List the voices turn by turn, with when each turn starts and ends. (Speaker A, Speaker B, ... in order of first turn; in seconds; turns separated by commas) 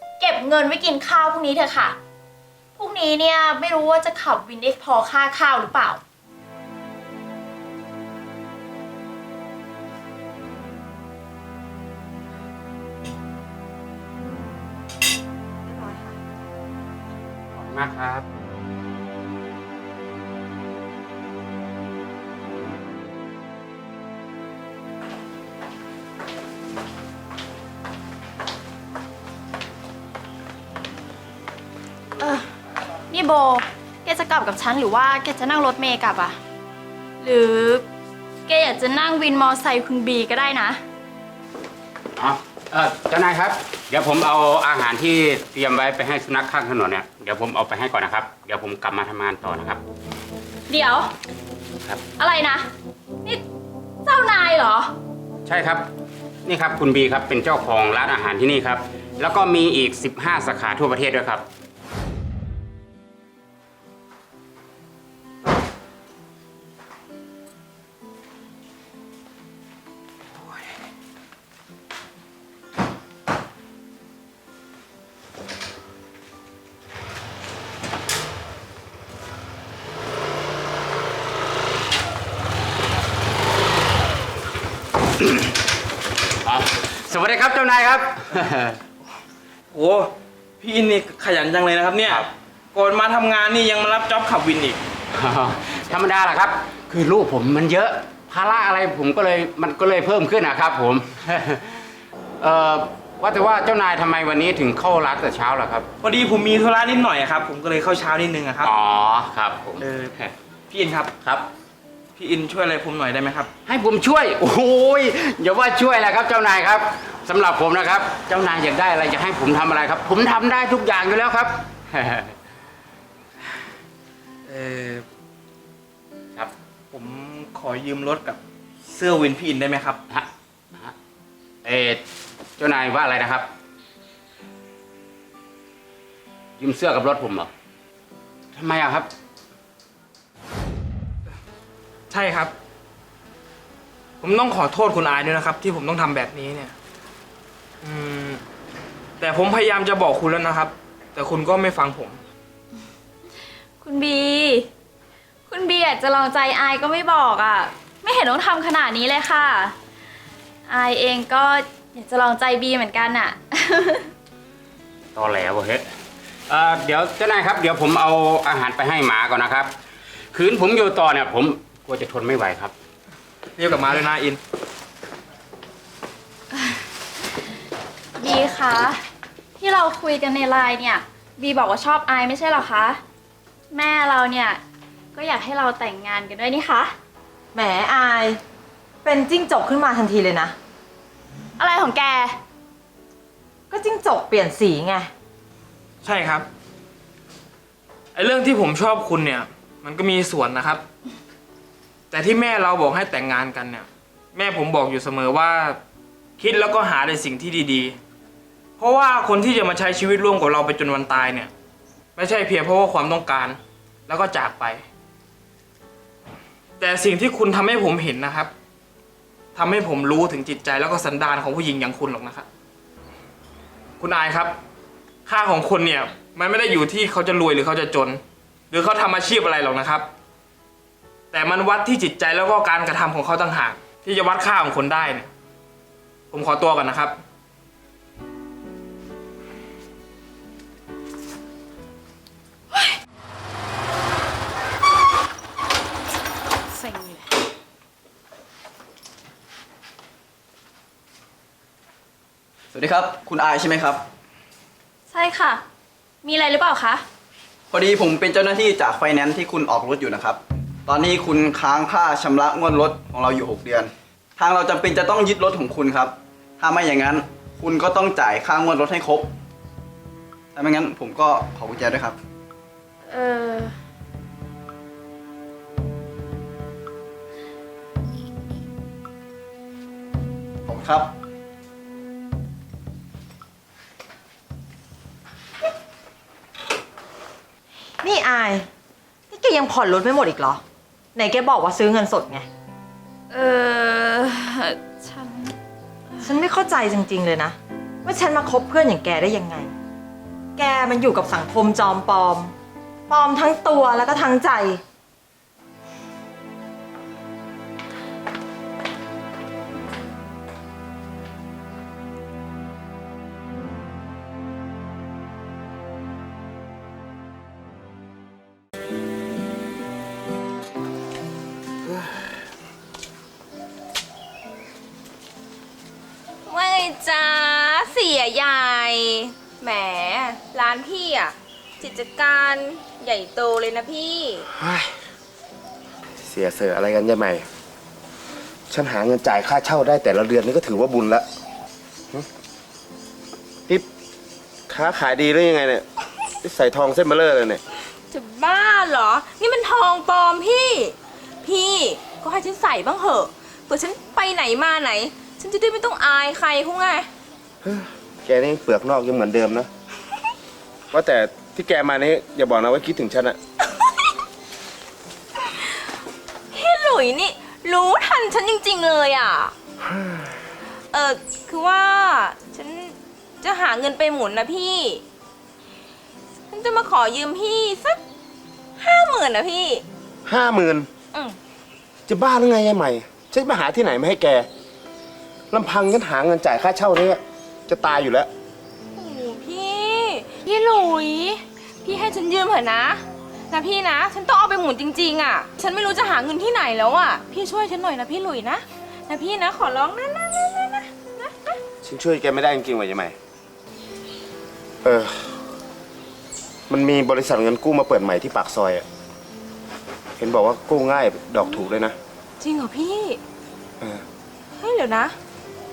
Speaker A: 0.2-2.0, Speaker A: 2.8-6.0, Speaker B: 15.6-16.2, Speaker C: 17.5-18.2, Speaker A: 32.2-32.5, Speaker A: 33.1-36.4, Speaker A: 37.2-37.9, Speaker A: 38.5-40.8, Speaker C: 42.2-49.8, Speaker A: 50.7-51.1, Speaker A: 52.2-52.7, Speaker A: 54.0-54.9, Speaker C: 55.5-55.9, Speaker C: 56.5-61.4, Speaker C: 86.4-88.8, Speaker D: 89.7-94.8, Speaker C: 95.1-101.8, Speaker C: 102.4-105.9, Speaker D: 106.0-108.7, Speaker C: 108.6-110.3, Speaker D: 110.7-111.1, Speaker C: 111.2-111.5, Speaker D: 112.2-113.5, Speaker C: 113.7-122.3, Speaker D: 124.5-125.0, Speaker D: 126.9-130.0, Speaker C: 130.1-130.9, Speaker C: 131.6-132.0, Speaker C: 132.6-133.5, Speaker C: 136.6-137.5, Speaker C: 138.5-139.1, Speaker D: 142.1-142.5, Speaker D: 144.2-146.7, Speaker D: 147.8-148.4, Speaker D: 149.2-152.2, Speaker A: 153.8-154.7, Speaker A: 155.5-159.7, Speaker A: 160.7-164.1, Speaker C: 165.1-165.8, Speaker C: 166.5-169.7, Speaker C: 170.3-172.7, Speaker D: 173.6-174.4, Speaker A: 178.2-179.0, Speaker A: 179.6-183.0, Speaker A: 183.7-184.6, Speaker A: 185.1-186.9, Speaker B: 187.5-188.4, Speaker B: 189.0-190.5, Speaker A: 191.6-192.4, Speaker B: 193.7-195.1, Speaker D: 196.0-196.5, Speaker D: 198.1-200.8, Speaker D: 202.1-205.8, Speaker D: 206.4-207.9, Speaker D: 208.8-211.5, Speaker D: 212.2-214.8, Speaker D: 216.8-218.5, Speaker D: 219.5-222.4, Speaker D: 224.0-224.6, Speaker D: 225.2-230.1, Speaker D: 231.3-235.3, Speaker D: 236.3-237.2, Speaker A: 246.7-247.2, Speaker E: 252.7-254.0, Speaker A: 255.1-255.6, Speaker A: 256.2-257.0, Speaker E: 257.7-269.3, Speaker E: 270.5-272.1, Speaker A: 273.1-273.8, Speaker E: 280.6-281.1, Speaker B: 288.0-288.7, Speaker B: 289.3-290.6, Speaker B: 291.1-292.5, Speaker A: 293.3-295.5, Speaker B: 296.2-299.7, Speaker B: 300.6-302.5, Speaker B: 303.1-304.8, Speaker F: 326.4-334.5, Speaker G: 334.5-334.9, Speaker G: 336.2-337.5, Speaker G: 338.7-341.2, Speaker G: 344.7-345.9, Speaker G: 346.4-347.6, Speaker F: 348.1-357.1, Speaker G: 357.6-359.7, Speaker G: 360.9-363.4, Speaker F: 366.5-369.5, Speaker G: 369.9-370.2, Speaker F: 370.9-375.0, Speaker F: 376.5-378.0, Speaker F: 378.8-379.8, Speaker G: 380.2-380.9, Speaker G: 382.1-384.5, Speaker G: 385.5-388.3, Speaker F: 388.9-401.6, Speaker G: 401.8-403.1, Speaker G: 404.8-405.4, Speaker G: 406.7-408.9, Speaker G: 410.2-411.9, Speaker F: 412.4-413.2, Speaker F: 414.6-415.1